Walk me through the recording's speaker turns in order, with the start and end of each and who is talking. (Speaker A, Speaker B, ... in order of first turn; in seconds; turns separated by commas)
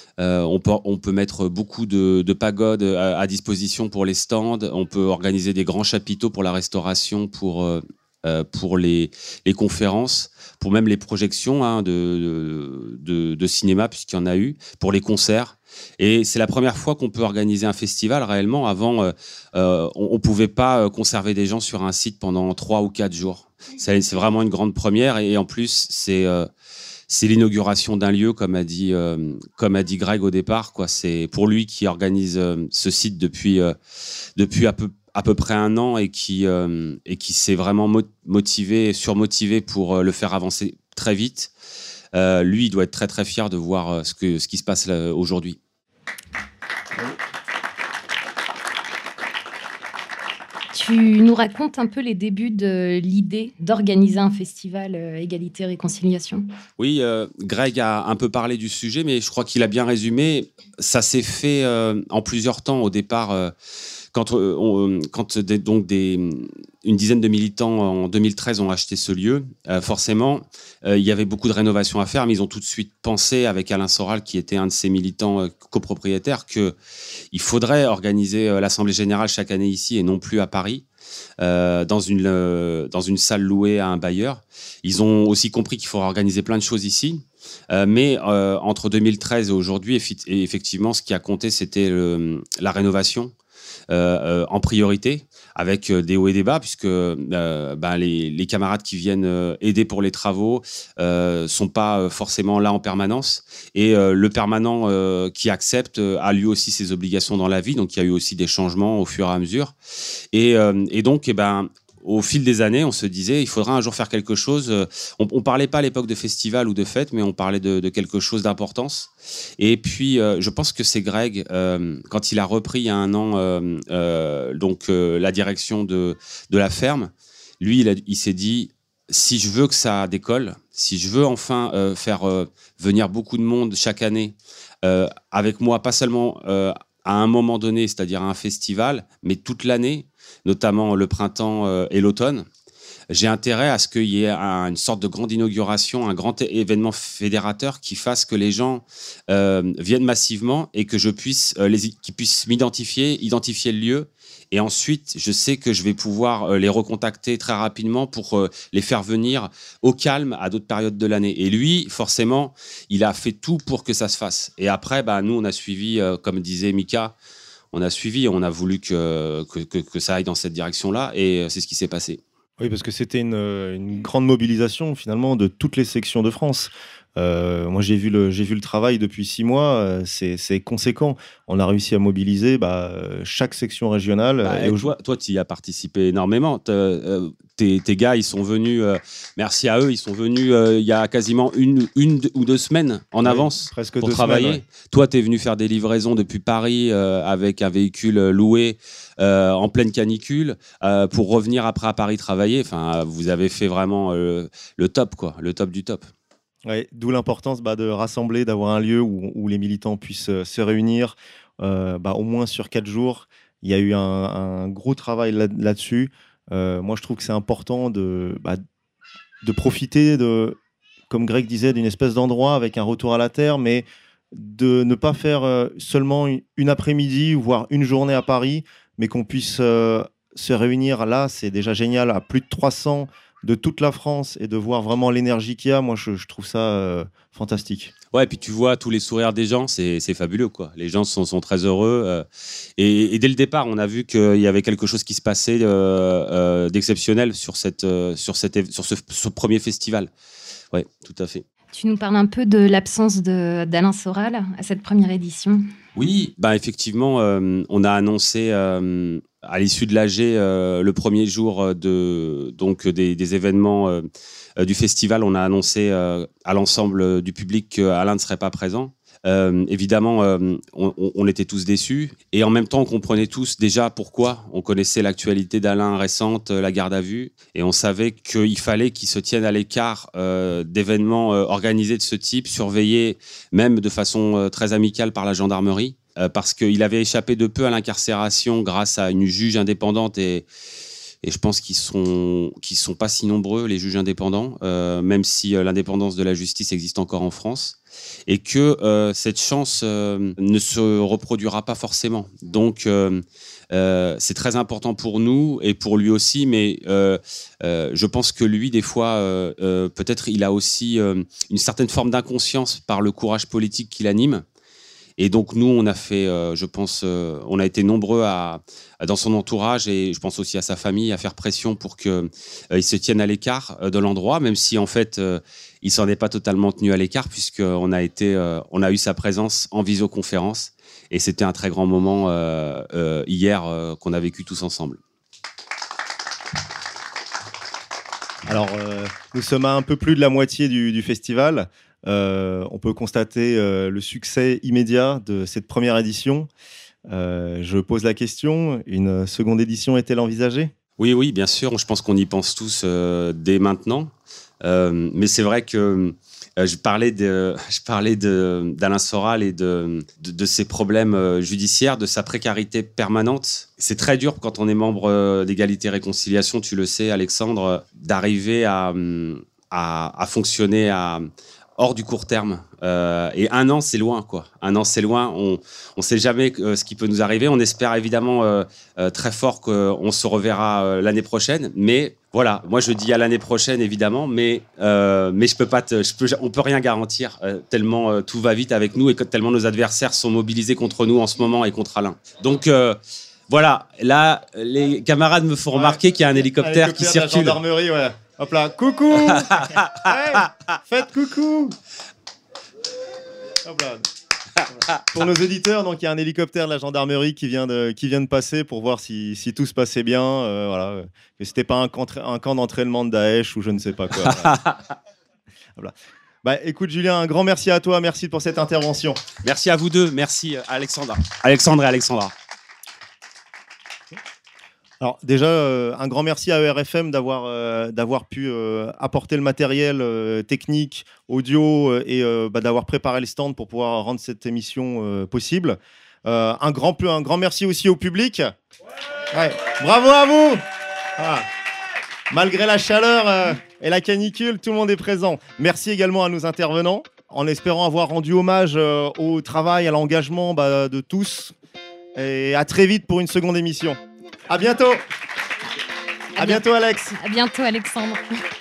Speaker A: 0.2-26.5, Speaker A: 27.1-33.7, Speaker A: 34.4-41.5, Speaker A: 42.1-45.6, Speaker B: 50.7-56.5, Speaker A: 56.8-63.5, Speaker A: 64.1-76.8, Speaker A: 77.3-80.8, Speaker A: 81.4-93.3, Speaker A: 93.9-109.7, Speaker A: 110.3-142.5, Speaker A: 143.1-167.1, Speaker A: 167.7-172.2, Speaker C: 172.6-184.9, Speaker A: 184.4-206.1, Speaker C: 193.2-194.6, Speaker C: 206.7-218.6, Speaker C: 219.4-220.6, Speaker C: 221.1-237.9, Speaker A: 238.1-242.2, Speaker A: 242.8-250.1, Speaker A: 250.7-251.4, Speaker B: 251.7-255.7, Speaker A: 255.9-264.1, Speaker A: 264.6-290.5, Speaker A: 291.2-314.4, Speaker A: 315.2-335.0, Speaker C: 338.4-346.5, Speaker C: 347.1-350.7, Speaker A: 351.0-397.6, Speaker C: 395.7-396.0, Speaker C: 396.5-401.8, Speaker C: 403.6-404.1, Speaker C: 405.0-414.6, Speaker A: 414.2-414.8, Speaker C: 416.4-419.2, Speaker A: 419.4-422.3, Speaker C: 425.0-438.5, Speaker C: 439.3-440.6, Speaker C: 441.2-441.5, Speaker C: 442.3-451.5, Speaker C: 452.1-455.0, Speaker B: 456.4-458.2, Speaker C: 456.4-457.1